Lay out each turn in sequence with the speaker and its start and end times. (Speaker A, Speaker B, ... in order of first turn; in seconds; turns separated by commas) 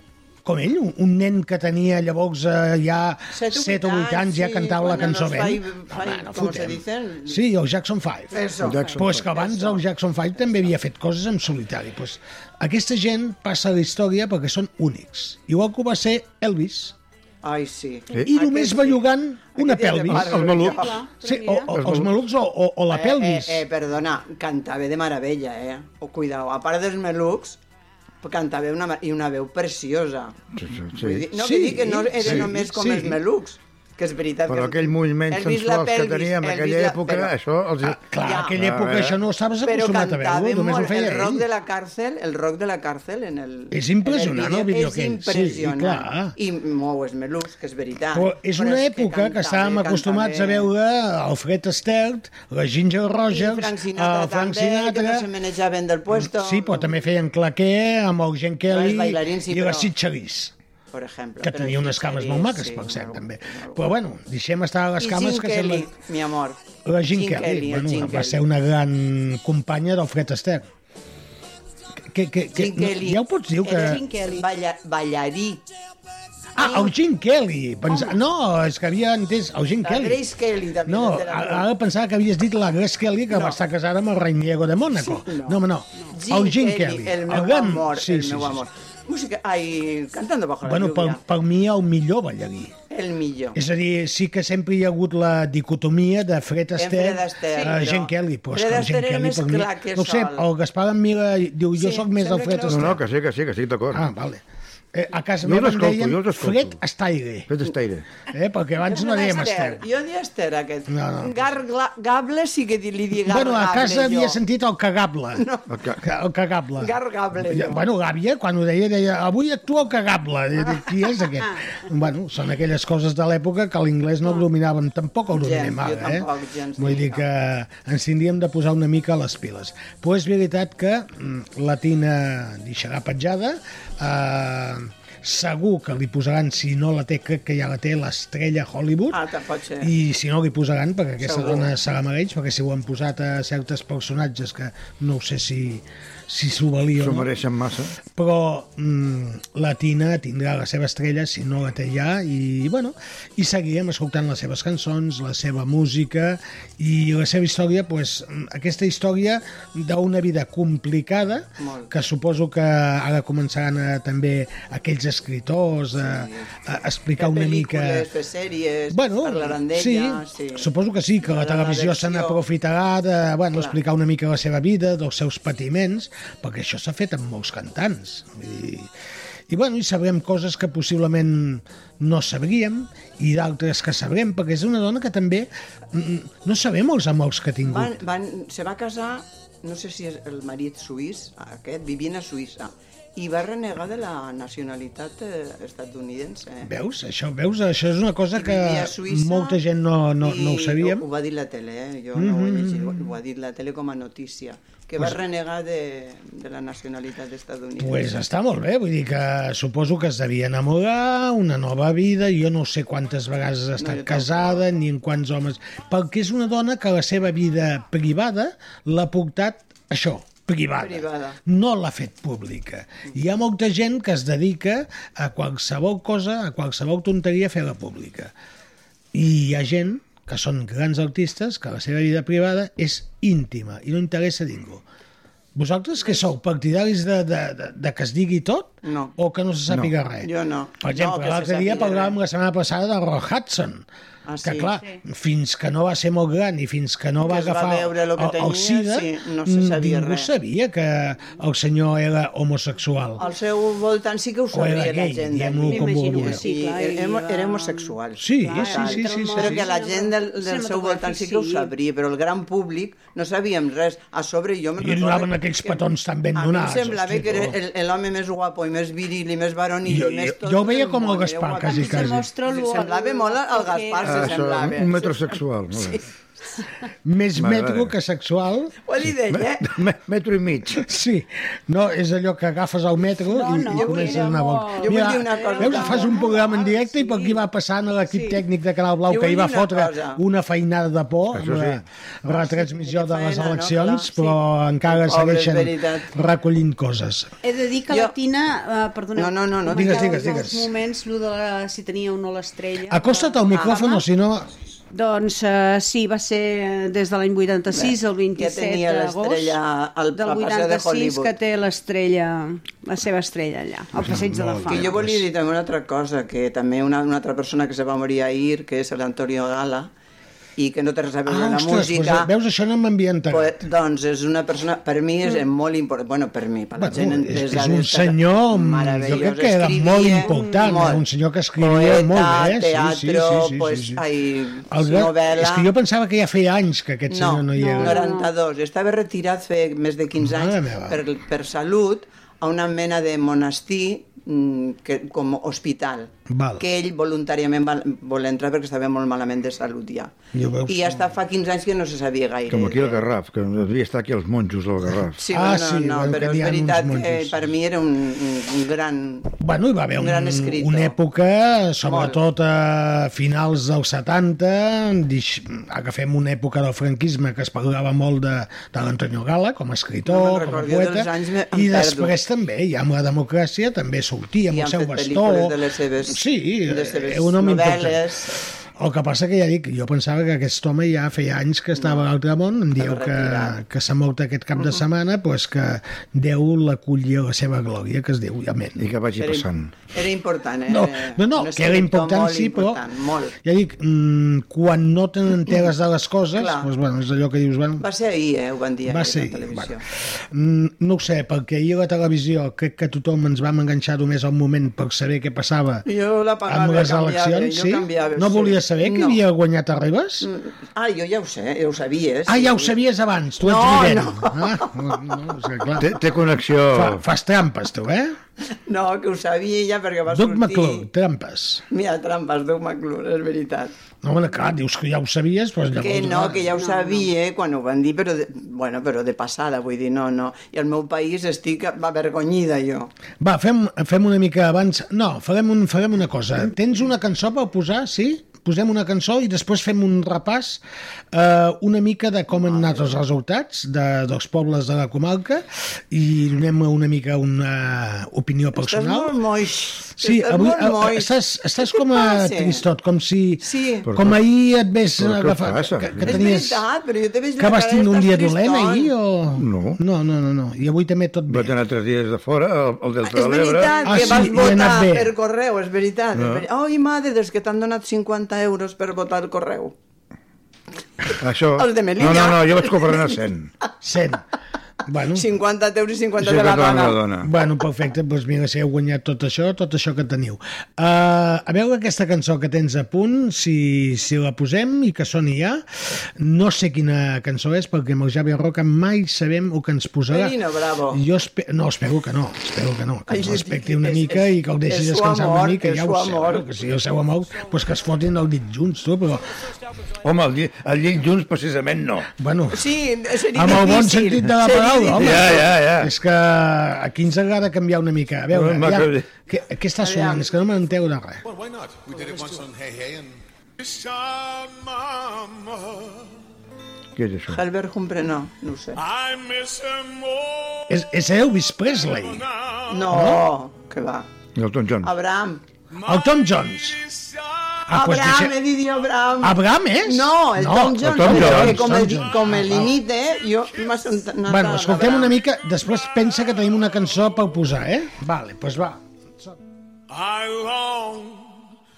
Speaker A: 0.4-16.9, Speaker B: 3.3-7.4, Speaker B: 8.3-9.8, Speaker C: 8.6-9.2, Speaker B: 17.4-21.0, Speaker A: 18.2-23.6, Speaker C: 20.1-20.8, Speaker D: 20.6-21.7, Speaker C: 21.7-22.1, Speaker B: 22.9-27.6, Speaker B: 28.2-30.4, Speaker C: 30.5-31.3, Speaker B: 30.9-37.3, Speaker A: 31.3-33.2, Speaker C: 32.2-32.5, Speaker C: 34.5-39.2, Speaker A: 37.8-41.5, Speaker B: 38.2-38.5, Speaker B: 39.6-50.7, Speaker A: 43.7-46.3, Speaker A: 48.1-55.3, Speaker B: 53.3-56.9, Speaker A: 56.1-60.5, Speaker B: 58.7-59.9, Speaker B: 60.9-63.9, Speaker A: 61.4-65.9, Speaker B: 65.0-66.6, Speaker A: 66.8-70.7, Speaker B: 67.1-68.4, Speaker A: 72.0-74.0, Speaker B: 72.5-75.6, Speaker D: 73.8-74.4, Speaker A: 76.5-80.2, Speaker D: 77.9-78.2, Speaker B: 79.8-81.7, Speaker A: 80.8-88.6, Speaker B: 83.3-83.6, Speaker B: 84.9-91.2, Speaker A: 90.6-92.7, Speaker B: 92.9-93.6, Speaker A: 93.5-103.0, Speaker B: 96.8-100.4, Speaker B: 101.7-102.9, Speaker C: 102.7-104.0, Speaker A: 103.9-107.5, Speaker C: 105.4-106.8, Speaker C: 107.5-108.0, Speaker A: 108.3-109.8, Speaker B: 108.9-114.4, Speaker A: 110.9-111.5, Speaker A: 113.2-115.4, Speaker B: 115.3-115.7, Speaker C: 115.7-116.0, Speaker A: 116.0-139.2, Speaker B: 116.8-117.8, Speaker B: 125.3-127.2, Speaker B: 139.1-139.9, Speaker A: 139.8-147.3, Speaker B: 141.2-141.7, Speaker C: 147.0-148.0, Speaker A: 148.1-168.1, Speaker B: 161.6-161.9, Speaker B: 165.9-166.6, Speaker B: 167.2-170.7, Speaker A: 168.9-178.9, Speaker B: 171.2-172.4, Speaker B: 173.5-173.8, Speaker A: 179.5-188.0, Speaker B: 187.6-196.7, Speaker A: 196.6-201.0, Speaker B: 198.3-199.6, Speaker B: 200.2-208.1, Speaker A: 202.1-203.0, Speaker A: 207.8-228.3, Speaker B: 213.8-214.6, Speaker B: 220.8-221.4, Speaker A: 229.1-234.8, Speaker A: 235.5-240.3, Speaker B: 238.8-239.1, Speaker B: 240.2-242.2, Speaker A: 240.8-243.8, Speaker B: 244.2-244.8, Speaker A: 244.4-253.2, Speaker B: 247.2-250.3, Speaker B: 253.2-265.8, Speaker A: 254.5-256.4, Speaker D: 255.7-261.7, Speaker A: 258.2-259.6, Speaker A: 264.8-267.6, Speaker B: 266.3-276.0, Speaker A: 269.9-272.3, Speaker D: 271.6-274.4, Speaker C: 274.0-276.0, Speaker A: 277.0-278.7, Speaker C: 277.4-277.9, Speaker B: 278.8-279.7, Speaker C: 279.3-280.8, Speaker A: 280.8-297.3, Speaker D: 283.2-287.4, Speaker B: 283.7-286.2, Speaker D: 288.1-288.4, Speaker B: 289.1-290.2, Speaker C: 291.3-291.8, Speaker B: 292.3-296.1, Speaker D: 297.4-303.9, Speaker B: 299.1-300.4, Speaker A: 299.7-300.7, Speaker A: 302.9-304.5, Speaker B: 303.5-303.8, Speaker D: 304.9-309.6, Speaker B: 307.7-311.3, Speaker D: 310.1-314.9, Speaker A: 314.0-315.2, Speaker B: 314.7-319.9, Speaker B: 320.6-322.3, Speaker A: 321.3-323.6, Speaker B: 323.3-331.0, Speaker A: 326.8-334.0, Speaker D: 330.2-330.7, Speaker B: 331.6-335.7, Speaker A: 334.7-338.0, Speaker B: 337.1-350.1, Speaker D: 337.5-338.3, Speaker A: 340.2-341.0, Speaker A: 346.3-346.6, Speaker A: 350.3-351.1, Speaker B: 350.7-353.0, Speaker C: 352.5-355.2, Speaker B: 355.2-359.3, Speaker A: 355.3-357.4, Speaker A: 359.4-388.9, Speaker B: 360.0-360.9, Speaker B: 361.8-362.2, Speaker B: 370.1-372.1, Speaker B: 374.5-378.4, Speaker B: 381.8-382.0, Speaker B: 382.8-383.6, Speaker C: 388.8-389.7, Speaker B: 389.2-393.3, Speaker A: 390.7-392.8, Speaker A: 393.4-397.8, Speaker B: 396.3-396.7, Speaker B: 397.8-399.8, Speaker A: 398.9-405.9, Speaker B: 405.9-409.2, Speaker A: 406.5-410.3, Speaker B: 410.2-412.7, Speaker A: 412.3-415.9, Speaker B: 413.4-414.8, Speaker C: 415.8-417.0, Speaker A: 416.7-418.1, Speaker B: 418.5-420.9, Speaker A: 420.1-421.6, Speaker B: 421.7-423.7, Speaker A: 424.0-426.5, Speaker B: 425.8-432.9, Speaker D: 426.6-427.1, Speaker A: 433.2-449.1, Speaker B: 442.3-442.9, Speaker B: 448.6-452.6, Speaker A: 450.0-456.6, Speaker B: 453.4-453.9, Speaker C: 453.9-454.2, Speaker C: 455.0-456.2, Speaker B: 456.0-458.9, Speaker A: 457.4-461.5, Speaker C: 459.4-459.8, Speaker C: 461.3-464.1, Speaker B: 463.0-469.7, Speaker A: 463.8-465.1, Speaker C: 466.1-466.4, Speaker C: 471.2-473.5, Speaker B: 471.6-473.1, Speaker A: 473.8-474.2, Speaker A: 474.8-475.3, Speaker B: 475.1-477.0, Speaker C: 476.2-477.3, Speaker A: 477.2-490.4, Speaker B: 490.1-491.0, Speaker A: 490.9-499.3, Speaker B: 493.1-496.4, Speaker C: 500.0-502.1, Speaker A: 502.2-502.7, Speaker B: 502.5-505.5, Speaker A: 503.3-511.2, Speaker C: 505.0-505.9, Speaker C: 508.3-509.1, Speaker B: 509.8-510.3, Speaker E: 511.2-516.1, Speaker C: 516.9-517.4, Speaker B: 517.3-518.8, Speaker E: 518.8-520.8, Speaker A: 520.7-522.2, Speaker E: 521.6-522.9, Speaker B: 522.7-524.1, Speaker A: 522.9-523.3, Speaker C: 524.4-524.9, Speaker B: 524.8-525.4, Speaker E: 525.7-527.7, Speaker A: 525.8-526.8, Speaker A: 527.7-528.4, Speaker B: 527.7-535.2, Speaker A: 529.2-532.7, Speaker C: 530.8-531.8, Speaker E: 531.9-532.3, Speaker A: 534.2-539.4, Speaker E: 535.7-537.2, Speaker E: 539.9-541.4